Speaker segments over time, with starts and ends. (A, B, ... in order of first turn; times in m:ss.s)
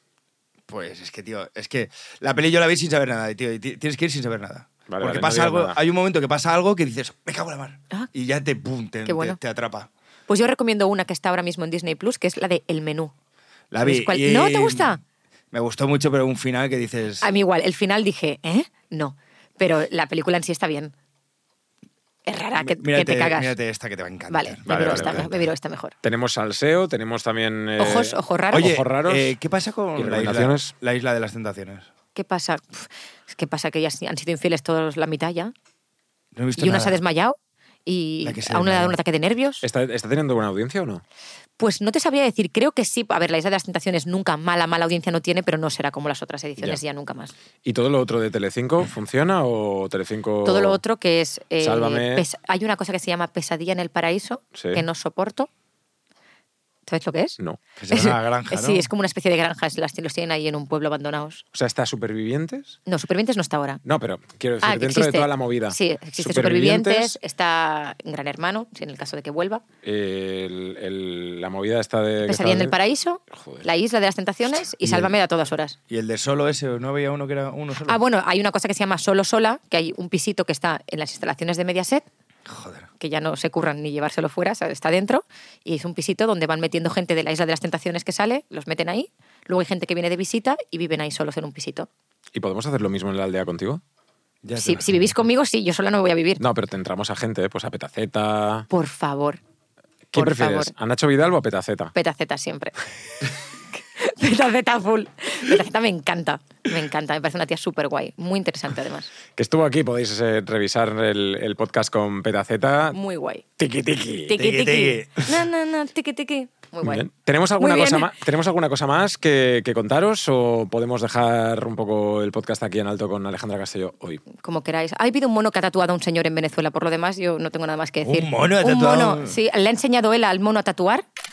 0:00.7-0:09.9 A
0:04.9-0:05.8 B
0:09.1-0:09.4 C
0:10.3-0:13.1 C
0:13.7-0:15.0 A
0:13.8-0:15.0 C
0:15.5-0:17.3 A
0:17.2-0:20.9 C
0:22.3-0:23.6 C
0:22.6-0:25.5 A
0:24.3-0:26.0 C
0:24.7-0:25.3 B
0:26.0-0:29.3 B
0:27.8-0:28.8 C
0:28.5-0:31.9 A
0:30.0-0:30.7 B
0:32.2-0:35.5 C
0:36.4-0:37.0 A
0:36.6-0:39.6 C
0:38.2-0:39.0 A
0:39.6-0:41.0 B
0:41.6-0:47.3 C
0:47.6-0:50.8 B
0:50.4-0:55.5 C
0:51.6-0:52.3 B
0:54.5-0:54.8 B
0:56.9-0:57.4 C
0:57.8-0:58.9 A
0:57.9-1:01.4 C
1:01.5-1:02.8 B
1:02.9-1:03.8 C
1:03.8-1:07.2 B
1:04.6-1:09.6 C
1:09.8-1:12.8 B
1:12.2-1:15.8 C
1:13.3-1:13.6 B
1:14.8-1:15.1 A
1:15.9-1:18.0 A
1:17.8-1:22.1 C
1:22.5-1:22.9 A
1:23.0-1:31.9 C
1:32.3-1:33.8 B
1:34.4-1:35.1 A
1:34.6-1:36.4 C
1:36.4-1:38.7 B
1:38.7-1:39.4 C
1:40.1-1:41.9 B
1:40.2-1:40.7 C
1:42.0-1:42.8 C
1:43.8-1:49.1 C
1:49.4-1:53.0 B
1:52.9-1:53.4 C
1:53.6-1:54.4 B
1:54.3-1:58.1 C
1:54.3-1:55.3 A
1:56.8-2:04.2 B
2:04.3-2:11.1 C
2:08.0-2:09.4 A